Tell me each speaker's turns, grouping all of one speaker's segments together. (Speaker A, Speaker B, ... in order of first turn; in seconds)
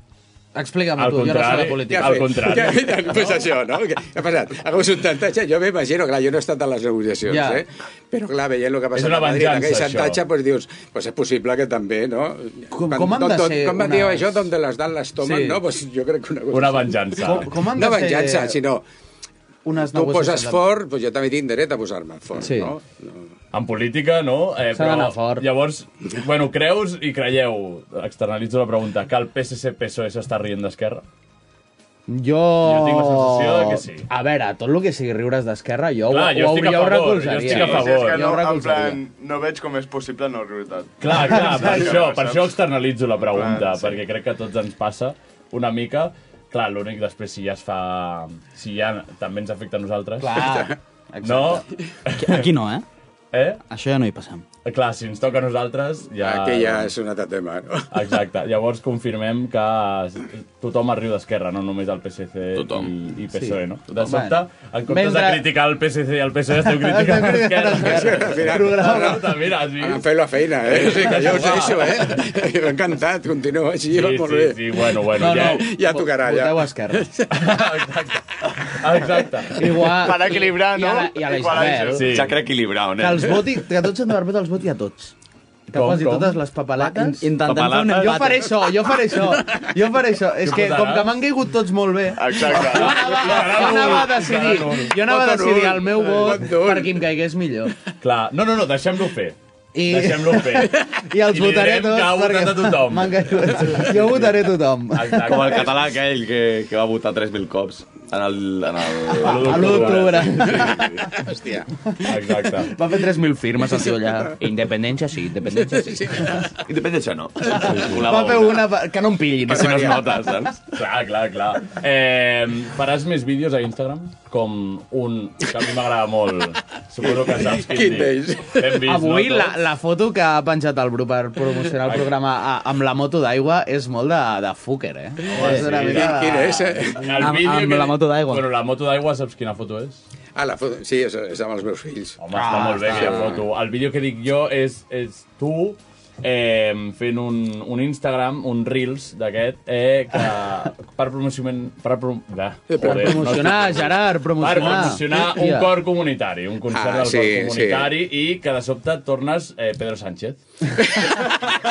Speaker A: 0.5-2.3, 7.3-7.6, 12.7-14.5, 15.2-15.6, 17.2-18.6, 19.6-20.6, 22.4-22.7, 24.7-25.4, 32.1-39.0, 41.3-41.9, 50.2-51.6, 63.3-64.4, 64.9-65.4, 66.6-69.2, 75.2-77.1, 79.5-82.0, 83.0-85.1, 85.7-87.3, 87.9-97.7, 99.7-105.2, 109.2-110.9, 112.6-116.4, 117.9-120.0, 128.8-136.8, 142.3-143.3, 152.8-155.7
Speaker B: 1.0-3.1, 8.9-10.2, 16.5-17.5, 23.5-31.0, 32.6-34.0, 36.1-38.4, 41.0-50.5, 51.2-52.5, 53.3-53.6, 54.6-56.9, 57.9-70.0, 70.7-72.2, 73.9-75.6, 77.3-79.6, 81.9-82.3, 85.7-86.4, 90.4-91.1, 92.5-95.0, 98.0-100.8, 101.3-104.2, 104.9-105.8, 109.2-110.6, 112.0-112.7, 120.7-129.6, 135.3-136.1, 137.0-140.0, 142.2-160.4
Speaker C: 1.9-18.8, 19.9-23.2, 50.3-50.8, 56.2-57.9, 67.8-69.3, 69.8-77.4, 95.0-97.0, 111.1-111.7, 115.6-116.5, 119.5-120.2, 127.0-128.8, 135.8-137.1, 140.3-142.2, 142.8-143.4, 152.7-153.4, 156.7-157.9
Speaker D: 37.5-42.5, 43.3-44.0, 79.9-82.1, 92.2-93.2
Speaker E: 52.1-52.8, 53.7-54.4, 86.8-88.4, 135.3-135.7, 137.2-138.4
Speaker F: 62.5-62.9, 82.1-83.4, 87.4-88.3, 105.2-111.0, 116.7-118.7, 119.5-120.6